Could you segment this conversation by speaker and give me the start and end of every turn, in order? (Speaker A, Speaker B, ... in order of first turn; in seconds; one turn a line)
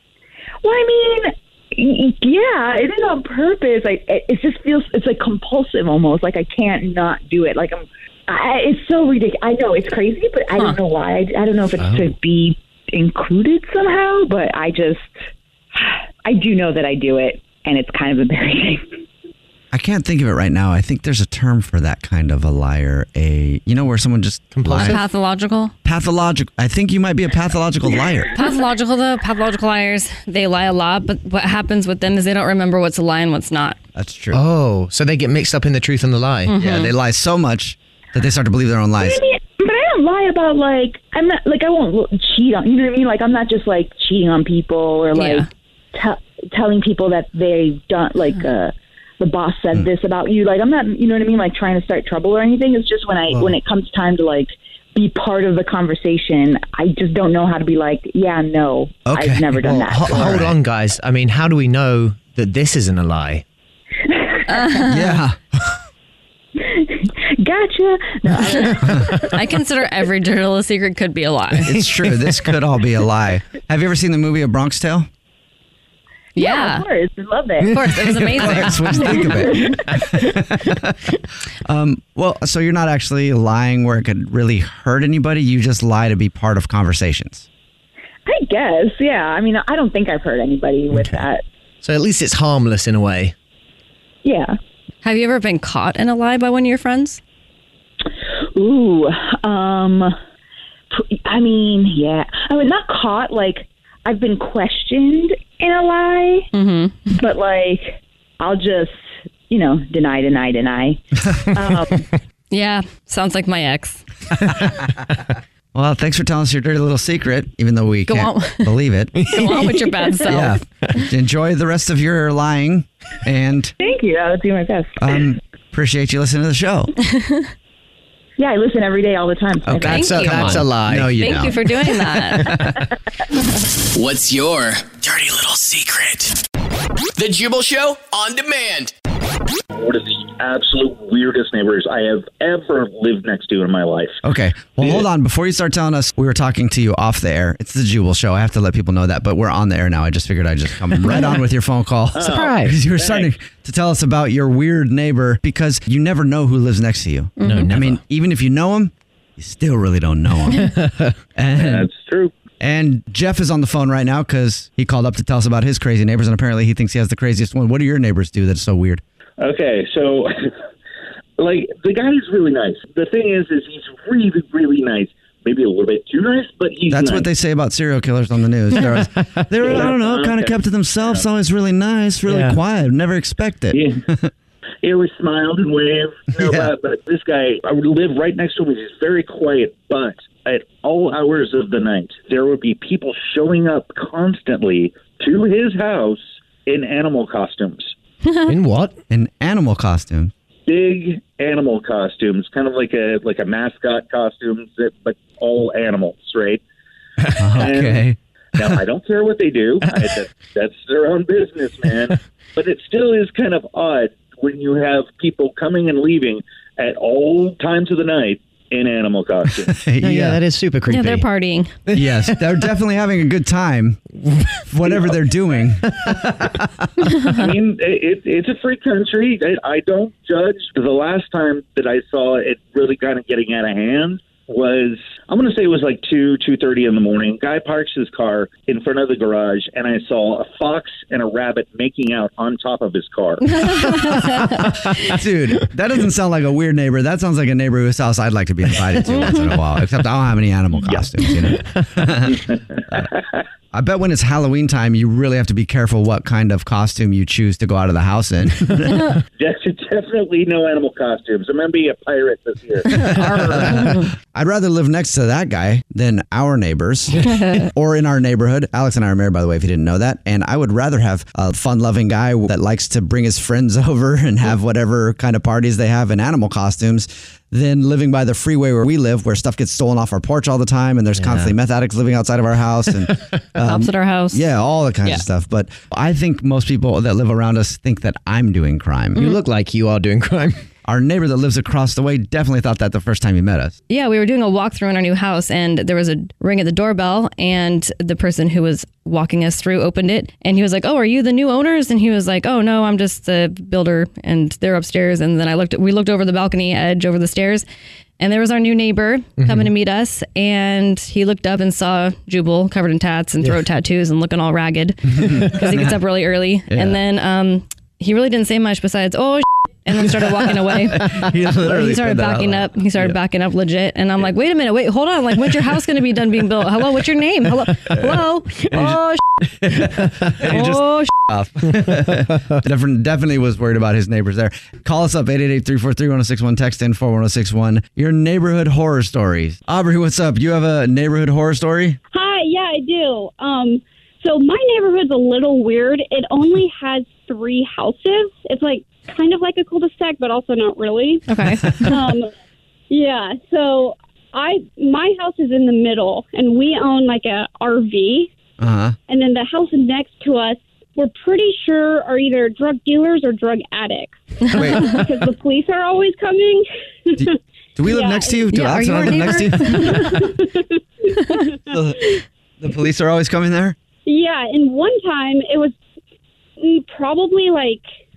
Speaker A: 0.6-15.2
Speaker B: 11.8-12.1
Speaker A: 15.8-18.8
Speaker C: 19.7-25.0
Speaker B: 24.5-25.0
Speaker D: 24.7-25.7
Speaker C: 25.8-28.3
Speaker D: 28.3-33.8
Speaker C: 34.0-34.4
Speaker B: 34.3-36.6
Speaker D: 36.5-36.9
Speaker C: 36.6-39.2
Speaker A: 39.0-60.4
Speaker D: 45.1-45.5
Speaker B: 53.3-53.6
Speaker C: 59.1-60.6
Speaker B: 59.6-63.4
Speaker A: 64.1-64.8
Speaker D: 64.5-65.2
Speaker C: 64.9-65.4
Speaker A: 66.6-68.9
Speaker B: 68.5-69.1
Speaker D: 69.2-71.8
Speaker C: 71.7-75.1
Speaker D: 76.4-76.9
Speaker A: 76.4-77.8
Speaker D: 77.6-79.4
Speaker C: 78.0-81.0
Speaker A: 79.4-79.8
Speaker C: 81.7-87.5
Speaker A: 88.3-91.4
Speaker B: 91.8-93.3
Speaker A: 94.2-94.6
Speaker D: 95.0-97.2
Speaker A: 98.5-100.2
Speaker A: 100.9-106.5
Speaker D: 106.5-107.0
Speaker A: 107.1-112.0
Speaker D: 112.5-114.0
Speaker C: 115.7-119.3
Speaker D: 118.1-121.0
Speaker B: 119.2-119.9
Speaker C: 120.3-123.7
Speaker A: 123.8-125.2
Speaker C: 125.0-126.9
Speaker D: 127.0-127.5
Speaker A: 128.4-130.2
Speaker B: 129.7-131.2
Speaker D: 129.8-132.6
Speaker C: 130.2-132.7
Speaker E: 133.9-136.4
Speaker E: 137.2-138.9
Speaker F: 139.7-144.2
Speaker C: 144.2-160.8
Speaker F: 144.8-145.1
Speaker F: 152.2-153.3
Speaker B: 152.2-152.8
Speaker D: 157.4-157.7
Speaker B: 157.4-158.0
Speaker B: 160.6-161.1
Speaker C: 161.3-161.9
Speaker F: 161.5-162.3
Speaker C: 162.6-169.0
Speaker F: 169.4-170.3
Speaker F: 171.4-177.3
Speaker C: 176.9-184.3
Speaker B: 179.0-179.7
Speaker F: 179.6-181.3
Speaker B: 182.3-182.6
Speaker F: 184.8-197.9
Speaker C: 186.4-186.7
Speaker B: 198.5-198.9
Speaker C: 199.1-200.3
Speaker F: 200.7-206.6
Speaker C: 207.4-208.7
Speaker F: 207.5-208.0
Speaker F: 208.6-219.8
Speaker C: 219.7-220.4
Speaker B: 220.0-221.3
Speaker D: 220.9-221.7
Speaker B: 221.9-222.4
Speaker C: 221.9-224.1
Speaker C: 224.6-227.3
Speaker F: 227.3-243.6
Speaker D: 243.6-244.7
Speaker B: 244.0-245.1
Speaker C: 245.0-253.1
Speaker F: 250.8-251.2
Speaker F: 252.3-253.4
Speaker C: 253.7-259.2
Speaker F: 259.4-263.1
Speaker C: 263.0-289.4
Speaker B: 263.4-264.0
Speaker B: 281.2-281.5
Speaker D: 283.6-284.4
Speaker B: 289.2-290.6
Speaker C: 290.9-293.8
Speaker D: 293.9-307.6
Speaker D: 308.2-329.2
Speaker B: 309.4-309.7
Speaker C: 315.2-315.9
Speaker C: 316.7-317.0
Speaker C: 320.9-323.2
Speaker C: 328.7-329.0
Speaker C: 329.6-342.0
Speaker D: 330.4-331.1
Speaker B: 331.8-332.6
Speaker G: 342.1-351.3
Speaker D: 351.3-352.0
Speaker G: 351.8-352.3
Speaker G: 352.9-358.3
Speaker C: 358.6-359.0
Speaker G: 359.1-368.6
Speaker C: 364.5-365.1
Speaker C: 367.2-370.3
Speaker D: 368.5-370.2
Speaker G: 369.8-372.2
Speaker C: 371.7-373.8
Speaker G: 374.1-375.8
Speaker G: 376.6-377.8